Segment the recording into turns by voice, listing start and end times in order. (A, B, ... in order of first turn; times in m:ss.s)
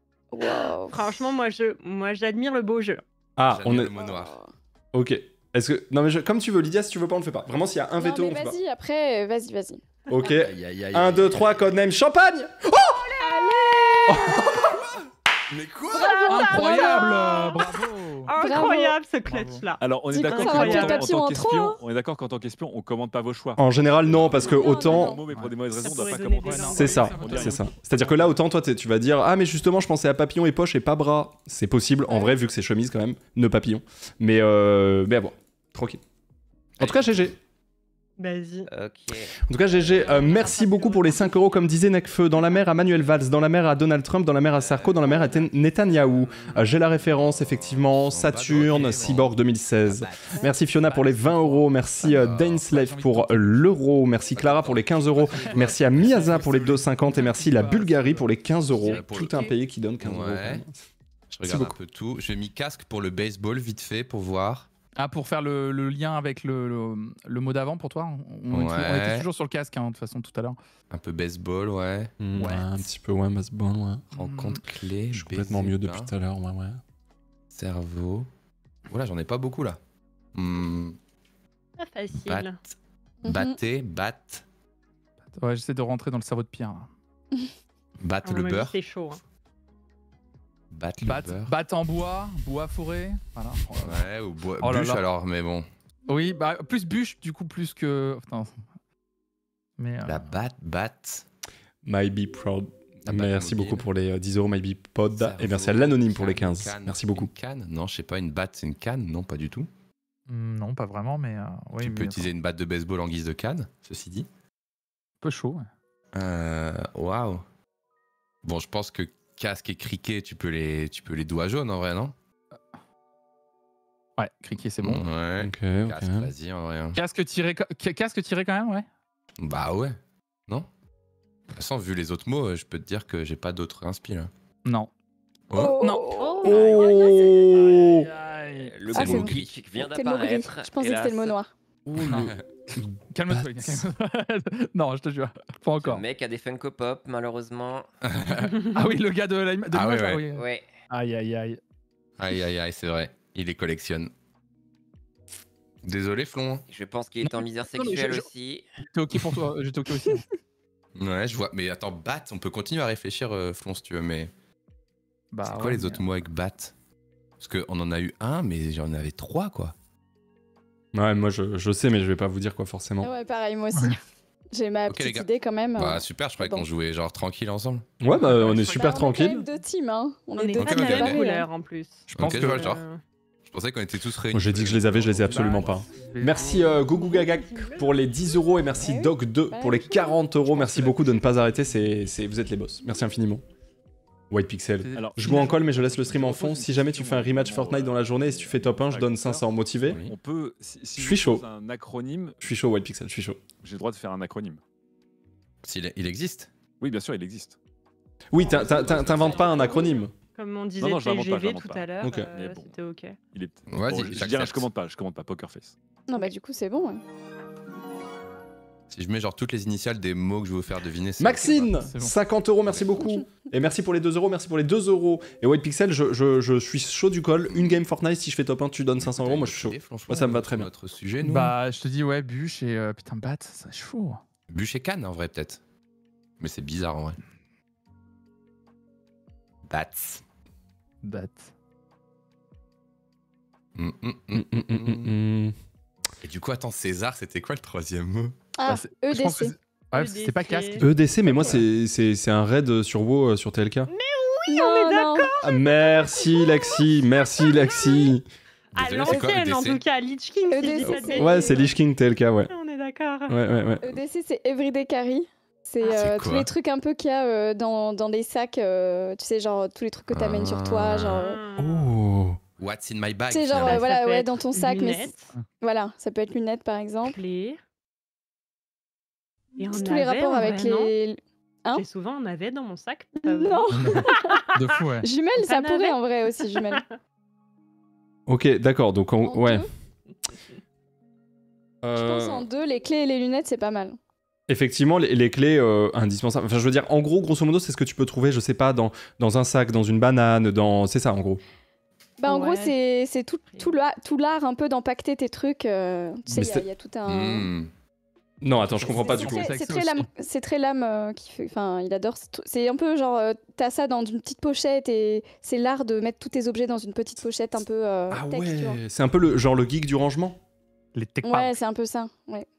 0:00.3-0:01.2 A
0:00.4-0:03.0 B
0:03.4-0:03.9 C
0:03.5-0:04.4 D
0:03.9-0:04.5 A
0:04.9-0:08.6 C
0:08.0-0:10.4 A
0:10.1-0:13.1 C
0:10.4-0:11.7 D
0:13.2-0:14.6 A
0:13.2-0:14.6 B
0:14.1-0:14.7 C
0:15.5-0:16.2 D
0:15.9-0:17.6 A
0:15.9-0:21.2 B
0:16.3-0:18.3 E
0:18.4-0:19.0 A
0:19.3-0:19.6 E
0:19.8-0:27.8 F
0:20.1-0:21.8 A
0:23.6-0:25.2 C
0:24.3-0:25.3 A
0:25.3-0:28.3 E
0:25.7-0:27.4 B
0:26.8-0:36.0 C
0:32.1-0:32.4 A
0:36.8-0:37.4 C
0:36.8-0:37.3 D
0:38.2-0:38.7 B
0:38.7-0:39.4 G
0:39.5-1:00.7 C
0:39.7-0:41.7 B
0:44.6-0:45.3 G
0:46.1-0:46.6 G
0:47.1-0:49.3 D
0:48.5-0:49.2 E
0:49.8-0:50.4 D
0:50.6-0:51.9 E
0:52.0-0:52.7 D
0:52.6-0:53.6 E
0:54.3-0:56.8 D
0:55.3-0:59.0 E
0:58.8-1:00.6 D
1:01.3-1:04.7 D
1:01.4-1:01.8 C
1:05.0-1:10.6 E
1:08.5-1:09.3 D
1:10.9-1:12.1 D
1:12.2-1:14.0 C
1:12.4-1:12.8 E
1:14.2-1:14.6 E
1:14.2-1:16.1 D
1:15.1-1:16.8 C
1:17.5-1:18.3 D
1:18.9-1:19.8 D
1:20.3-1:21.0 D
1:21.8-1:22.6 B
1:22.2-1:24.4 D
1:23.2-1:23.6 A
1:25.4-1:26.9 E
1:28.0-1:28.7 D
1:28.2-1:29.2 B
1:30.7-1:31.5 D
1:31.0-1:34.1 E
1:33.8-1:35.7 D
1:34.6-1:35.0 E
1:36.1-1:38.6 E
1:39.8-1:40.3 E
1:40.0-1:41.3 D
1:41.8-1:47.3 C
1:43.0-1:43.9 D
1:45.1-1:49.7 D
1:50.3-1:52.3 E
1:51.8-1:54.3 D
1:55.2-1:55.7 E
1:56.1-1:57.4 D
1:58.4-2:02.1 D
2:04.2-2:05.1 E
2:04.8-2:07.0 D
2:05.4-2:06.3 C
2:07.0-2:08.8 E
2:09.4-2:10.7 D
2:11.5-2:14.3 D
2:14.6-2:14.9 E
2:15.5-2:15.8 D
2:15.5-2:17.2 A
2:15.8-2:16.1 E
2:16.2-2:17.7 B
2:16.5-2:16.9 G
2:16.5-2:18.1 C
2:17.9-2:18.8 E
2:18.5-2:21.4 G
2:18.9-2:21.5 A
2:18.9-2:19.5 D
2:21.9-2:23.8 C
2:22.0-2:22.3 E
2:22.1-2:22.4 D
2:23.1-2:26.0 E
2:25.8-2:27.9 G
2:28.0-2:28.6 D
2:28.3-2:31.6 E
2:29.7-2:30.2 D
2:30.3-2:30.7 G
2:32.2-2:34.1 D
2:35.8-2:36.6 D
2:36.7-2:38.7 G
2:37.2-2:38.3 E
2:38.9-2:40.3 E
2:41.0-2:44.3 D
2:45.3-2:46.1 E
2:45.4-2:46.7 D
2:47.4-2:49.7 D
2:50.9-2:53.1 C
2:53.0-2:54.0 A
2:54.5-2:56.7 A
2:54.9-2:57.9 D
2:58.0-2:59.4 C
2:58.1-2:58.6 E
2:58.5-3:01.5 A
3:00.4-3:03.0 B
3:00.6-3:01.2 D
3:02.1-3:02.8 E
3:02.1-3:02.8 D
3:03.5-3:05.5 D
3:04.3-3:13.4 C
3:05.3-3:06.8 E
3:05.4-3:05.7 F
3:06.4-3:08.8 B
3:08.8-3:10.8 A
3:14.3-3:20.0 C
3:14.8-3:15.6 E
3:14.9-3:22.4 F
3:19.9-3:20.1 D
3:21.0-3:21.4 C
3:22.4-3:23.4 C
3:23.6-3:24.6 F
3:25.6-3:26.5 D
3:26.8-3:27.6 F
3:28.3-3:30.1 C
3:28.4-3:33.2 B
3:28.5-3:29.5 D
3:29.4-3:30.0 A
3:30.8-3:32.7 F
3:32.0-3:32.3 C
3:33.3-3:35.8 F
3:33.7-3:34.7 D
3:36.1-3:37.0 A
3:38.9-3:41.8 D
3:41.2-3:50.7 C
3:41.8-3:42.1 E
3:42.7-3:42.9 D
3:47.5-3:47.8 D
3:49.0-3:51.5 D
3:51.2-3:54.2 E
3:54.5-3:55.6 D
3:56.4-3:57.2 D
3:59.7-4:00.2 D
4:01.0-4:01.5 E
4:03.8-4:05.1 D
4:04.3-4:05.5 C
4:06.2-4:08.3 D
4:08.6-4:09.6 A
4:08.7-4:10.9 E
4:09.9-4:10.8 B
4:10.8-4:13.9 C
4:11.2-4:11.6 A
4:13.9-4:16.7 B
4:14.5-4:15.4 A
4:15.4-4:18.2 C
4:18.7-4:19.8 D
4:18.7-4:21.8 B
4:19.1-4:19.3 A
4:20.5-4:21.7 A
4:20.8-4:22.5 C
4:22.5-4:23.4 B
4:23.3-4:24.0 C
4:23.8-4:31.4 A
4:25.8-4:26.5 D
4:30.1-4:31.2 D
4:31.2-4:31.9 B
4:31.6-4:32.4 C
4:32.6-4:33.8 D
4:33.3-4:37.2 A
4:33.6-4:35.3 B
4:37.0-4:37.6 B
4:39.6-4:41.8 A
4:39.6-4:41.0 B
4:41.7-4:44.4 B
4:43.2-4:44.4 A
4:43.7-4:44.0 E
4:44.6-4:45.1 E
4:45.0-4:46.8 A
4:45.4-4:46.9 B
4:48.3-4:49.7 C
4:49.2-4:49.7 A
4:51.8-4:52.5 C
4:51.9-4:54.0 A
4:54.5-5:01.4 C
5:02.2-5:07.5 A
5:02.2-5:02.8 B
5:03.5-5:03.8 B
5:06.3-5:06.7 C
5:07.1-5:07.7 D
5:08.4-5:09.5 C
5:08.7-5:10.1 E
5:08.8-5:18.8 A
5:18.1-5:20.4 C
5:20.9-5:21.6 E
5:21.2-5:22.5 A